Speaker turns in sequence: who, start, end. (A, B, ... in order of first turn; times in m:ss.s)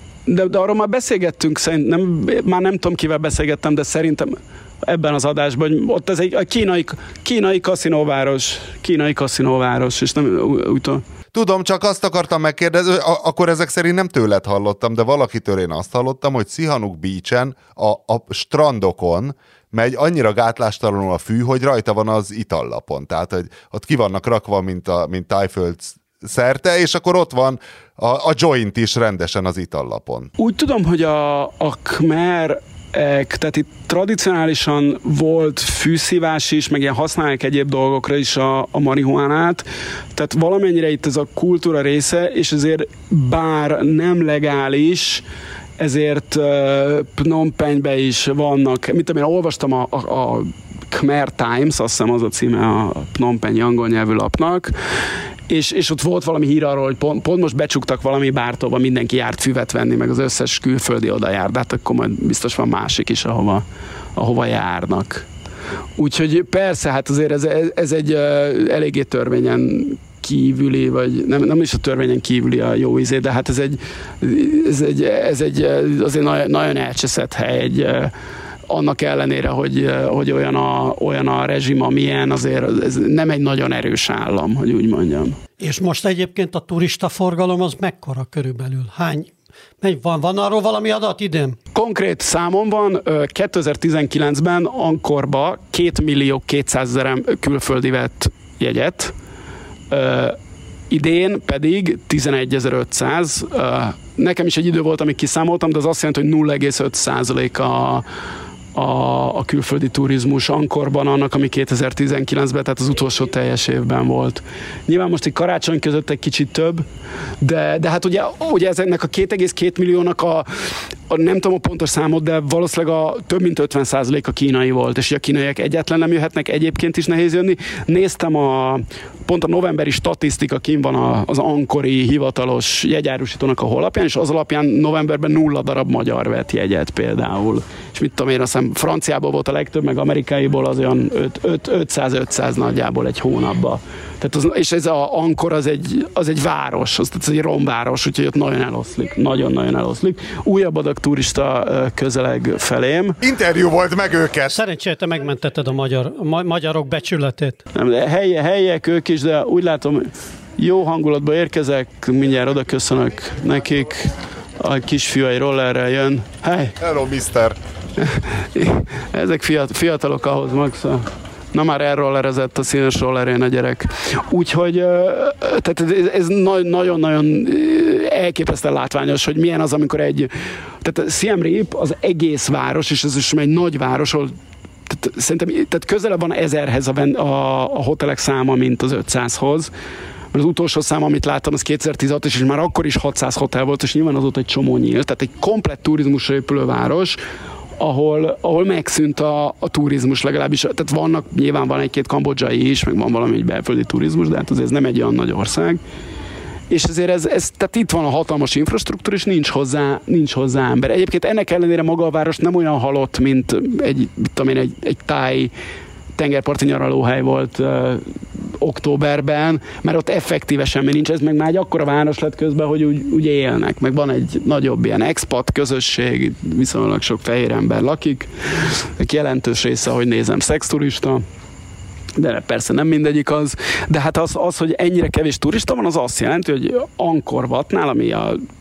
0:00.3-0:11.0 A
0:11.3-0:30.3 B
0:30.4-0:45.2 A
0:45.8-0:54.7 A
0:55.5-1:03.6 A
1:04.2-1:05.3 A
1:06.0-1:18.1 A
1:18.7-1:25.4 A
1:25.6-1:31.6 C
1:31.7-1:39.1 A
1:39.9-1:40.4 A
1:40.9-1:48.1 A
1:48.8-1:56.9 A
1:57.4-2:33.2 A
2:33.2-2:34.6 B
2:34.5-2:37.6 C
2:37.7-2:46.8 A
2:46.8-2:47.6 B
2:48.0-3:00.3 A
3:00.8-3:04.3 A
3:04.9-3:09.7 A
3:10.3-3:17.2 A
3:17.8-3:25.8 A
3:26.7-3:35.5 A
3:36.2-3:51.2 A
3:52.2-3:58.4 A